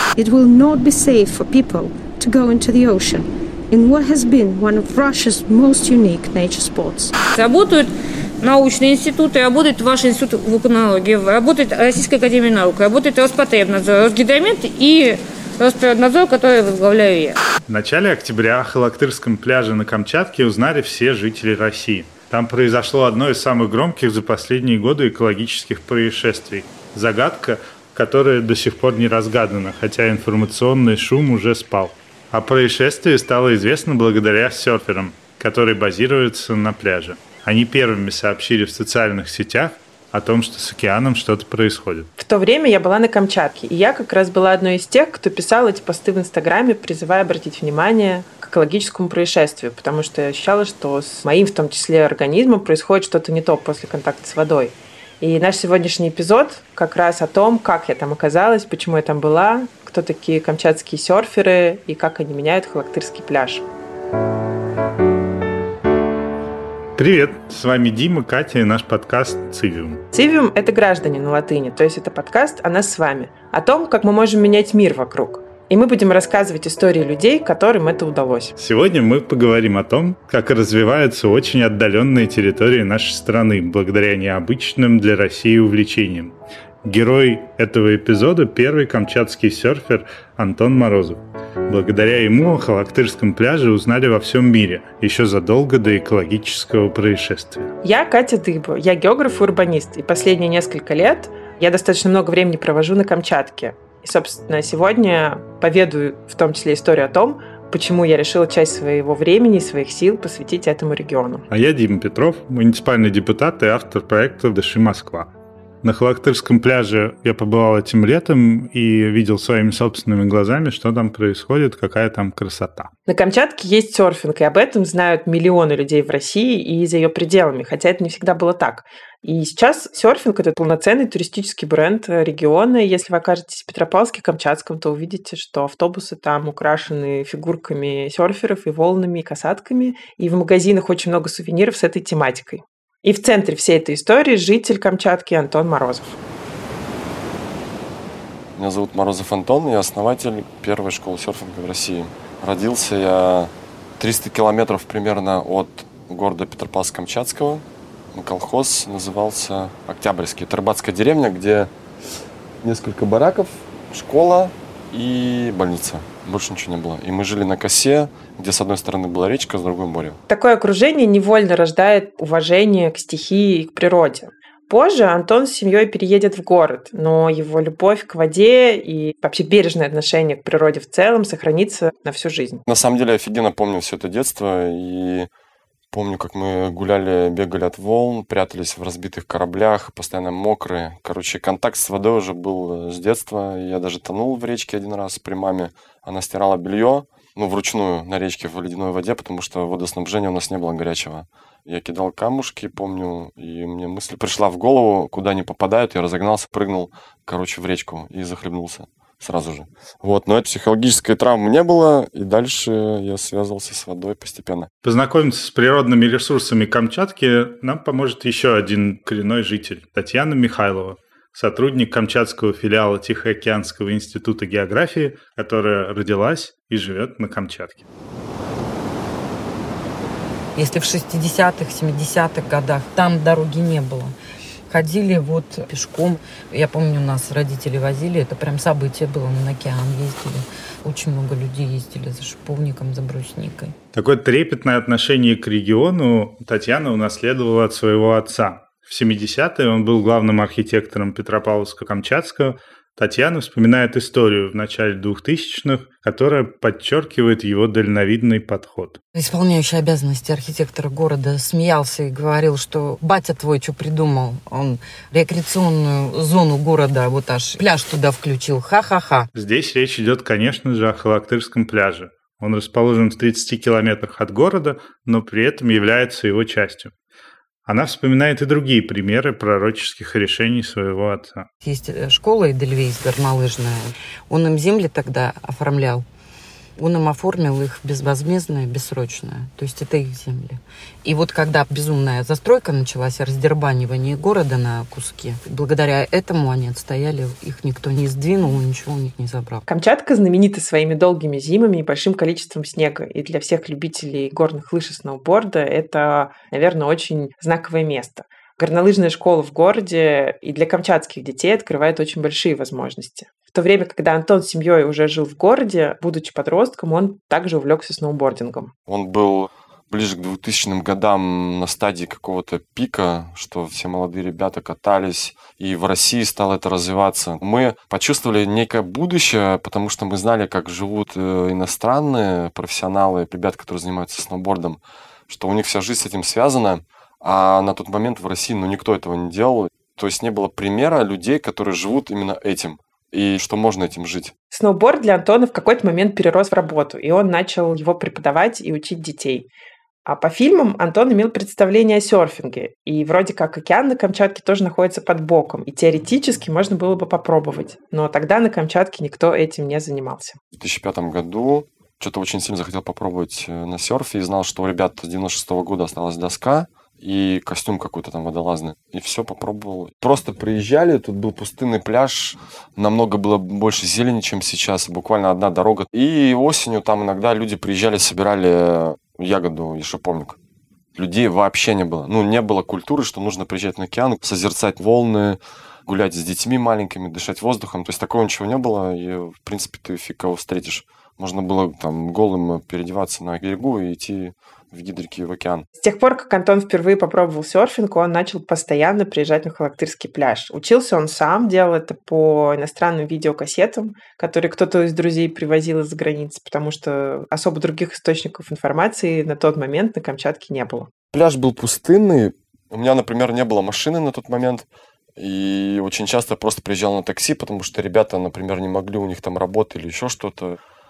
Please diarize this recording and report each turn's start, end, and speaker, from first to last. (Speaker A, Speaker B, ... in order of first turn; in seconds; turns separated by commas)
Speaker A: 0.2-7.1, Speaker B: 7.3-7.9, Speaker B: 8.4-17.4, Speaker C: 17.7-42.1, Speaker D: 42.2-63.6, Speaker C: 67.0-70.0, Speaker D: 70.1-78.5, Speaker C: 78.6-97.7, Speaker D: 97.8-111.4, Speaker C: 111.5-115.3, Speaker C: 115.8-122.9, Speaker D: 123.1-146.2, Speaker E: 148.6-161.7, Speaker E: 162.6-170.2, Speaker D: 170.3-182.6, Speaker E: 182.7-185.3, Speaker E: 185.9-214.7, Speaker C: 214.8-227.8, Speaker F: 230.6-234.2, Speaker F: 234.7-243.8, Speaker C: 243.9-259.0, Speaker F: 259.1-269.3, Speaker C: 269.3-276.9, Speaker C: 277.6-281.5, Speaker F: 281.6-286.1, Speaker F: 286.8-299.6, Speaker D: 299.7-318.7, Speaker E: 318.9-344.3, Speaker D: 344.5-349.5, Speaker D: 350.0-360.4, Speaker E: 360.6-380.4, Speaker E: 380.9-395.6, Speaker D: 395.8-410.9, Speaker E: 411.1-414.6, Speaker E: 415.2-420.6